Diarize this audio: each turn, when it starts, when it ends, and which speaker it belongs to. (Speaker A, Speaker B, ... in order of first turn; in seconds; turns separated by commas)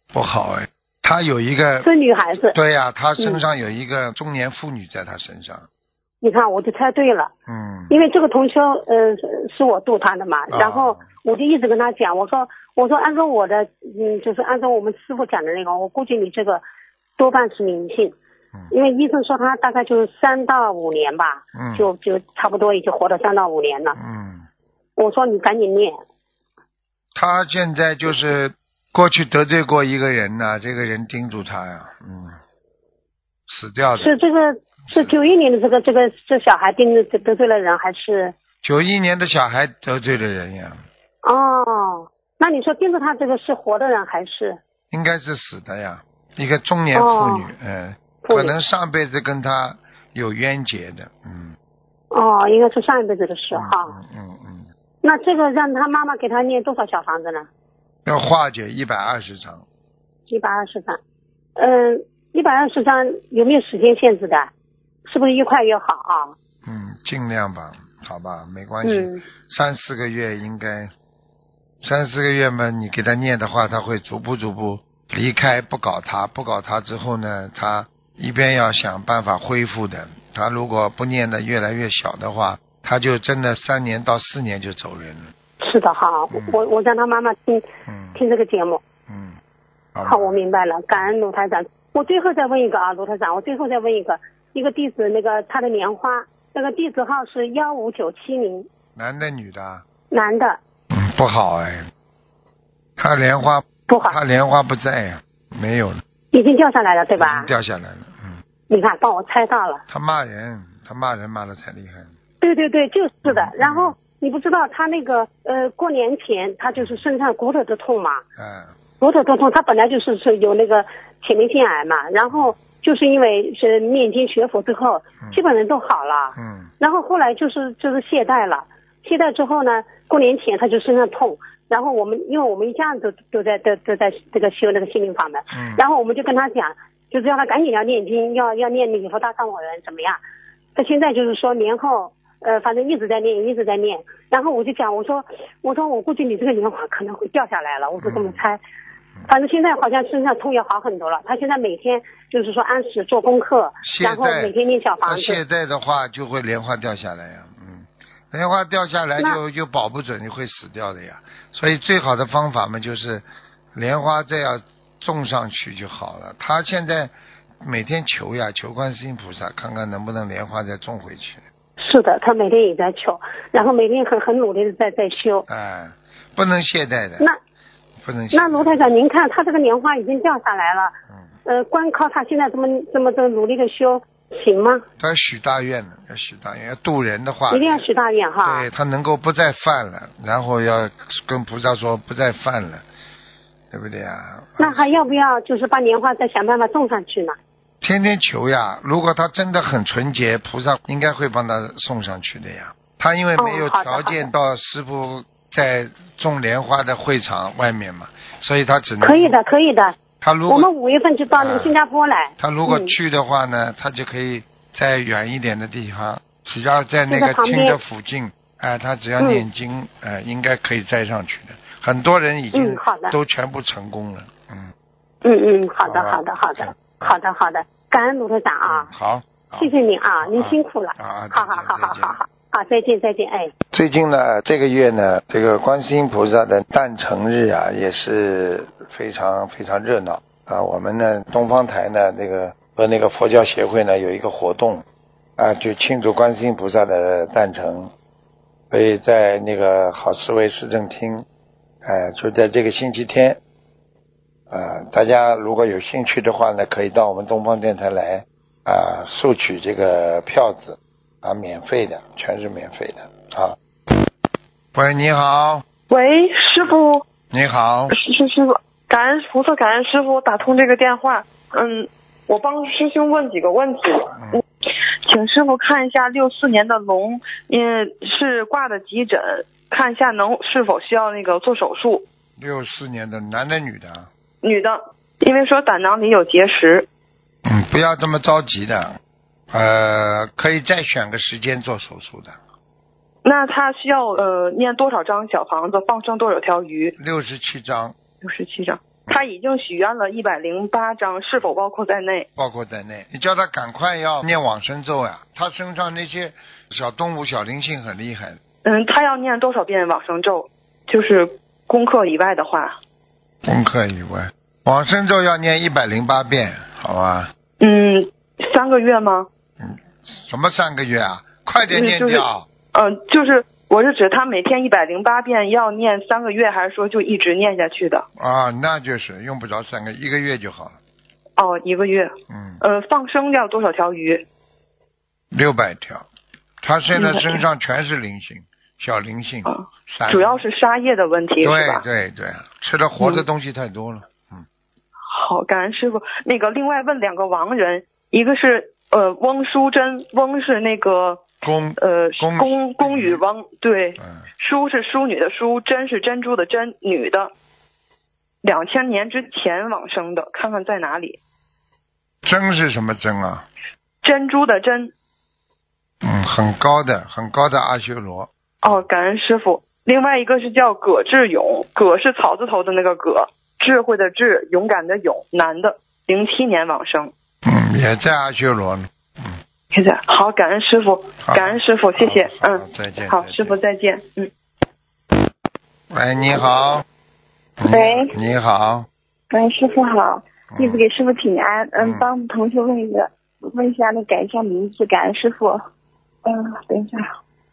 Speaker A: 0.1-1.9, Speaker B: 1.8-2.5, Speaker A: 2.5-5.7, Speaker B: 6.2-7.3, Speaker A: 7.5-8.0, Speaker B: 7.9-16.6, Speaker A: 10.5-11.0, Speaker B: 17.2-18.2, Speaker B: 18.7-24.0, Speaker A: 21.6-21.9, Speaker A: 24.0-24.5, Speaker B: 25.0-25.9, Speaker A: 27.1-32.4, Speaker A: 33.5-34.1, Speaker B: 34.0-38.3, Speaker A: 34.9-35.2, Speaker A: 38.6-40.8, Speaker B: 41.2-44.6, Speaker A: 44.9-51.5, Speaker B: 46.9-47.5, Speaker B: 48.2-48.5, Speaker B: 52.1-54.0, Speaker A: 53.5-54.7, Speaker B: 55.0-57.5, Speaker A: 58.1-59.6, Speaker B: 60.3-61.0, Speaker B: 61.6-64.5, Speaker B: 65.1-66.4, Speaker A: 66.7-70.9, Speaker B: 68.8-69.2, Speaker A: 71.8-85.3, Speaker B: 85.6-88.8, Speaker A: 86.3-86.6, Speaker A: 87.9-88.2, Speaker A: 89.1-89.4, Speaker A: 89.9-90.4, Speaker B: 90.0-98.7, Speaker A: 99.0-99.8, Speaker B: 100.1-100.6, Speaker A: 100.9-101.8, Speaker A: 103.0-106.0, Speaker B: 103.9-104.2, Speaker B: 106.3-107.5, Speaker A: 107.2-108.4, Speaker B: 108.7-109.8, Speaker A: 109.9-112.1, Speaker B: 112.4-118.2, Speaker A: 113.3-114.0, Speaker A: 118.4-118.7, Speaker B: 119.0-140.2, Speaker A: 126.4-126.7, Speaker A: 135.5-135.8, Speaker B: 140.8-148.6, Speaker A: 148.0-148.4, Speaker B: 149.3-155.4, Speaker A: 153.8-154.5, Speaker A: 155.1-163.2, Speaker A: 163.8-171.4, Speaker B: 171.8-175.5, Speaker A: 175.5-177.3, Speaker A: 178.0-178.9, Speaker B: 178.3-180.9, Speaker B: 181.4-184.8, Speaker A: 185.0-187.9, Speaker B: 187.5-188.7, Speaker A: 188.4-192.8, Speaker A: 193.7-195.1, Speaker B: 194.6-197.4, Speaker A: 197.8-209.4, Speaker B: 203.4-204.3, Speaker B: 209.0-212.9, Speaker A: 210.2-210.7, Speaker A: 211.4-211.8, Speaker A: 212.4-224.7, Speaker B: 217.1-217.8, Speaker B: 219.2-219.4, Speaker B: 222.5-223.2, Speaker B: 225.2-228.9, Speaker A: 225.8-227.2, Speaker A: 228.7-229.7, Speaker B: 229.6-233.5, Speaker A: 230.2-232.2, Speaker A: 233.7-244.8, Speaker A: 245.4-247.9, Speaker A: 248.7-251.2, Speaker A: 251.8-253.4, Speaker A: 254.5-263.6, Speaker A: 264.8-265.6, Speaker C: 265.9-267.1, Speaker A: 267.3-267.9, Speaker C: 267.9-274.4, Speaker C: 275.1-282.1, Speaker A: 282.4-284.1, Speaker C: 284.4-286.9, Speaker A: 287.4-289.0, Speaker A: 289.5-292.4, Speaker C: 293.2-296.9, Speaker A: 297.0-297.9, Speaker C: 298.2-302.3, Speaker A: 302.4-308.4, Speaker C: 308.6-312.8, Speaker A: 313.4-317.3, Speaker C: 317.6-319.3, Speaker A: 319.6-322.5, Speaker C: 321.7-328.1, Speaker A: 328.2-330.8, Speaker C: 331.4-332.1, Speaker A: 332.3-332.6, Speaker C: 332.6-334.2, Speaker A: 335.3-336.1, Speaker A: 336.6-340.4, Speaker C: 336.9-337.4, Speaker C: 339.5-341.8, Speaker A: 341.4-344.4, Speaker C: 345.1-351.3, Speaker A: 351.4-353.2, Speaker C: 351.8-357.3, Speaker C: 358.4-361.2, Speaker A: 362.2-363.5, Speaker C: 364.0-364.9, Speaker A: 366.0-368.3, Speaker C: 368.6-377.1, Speaker A: 377.4-379.4, Speaker C: 379.7-384.3, Speaker A: 381.2-383.6, Speaker A: 385.9-386.9, Speaker A: 387.6-388.9, Speaker D: 387.7-388.1, Speaker D: 389.3-395.7, Speaker A: 390.5-390.8, Speaker A: 391.8-392.1, Speaker D: 396.2-397.1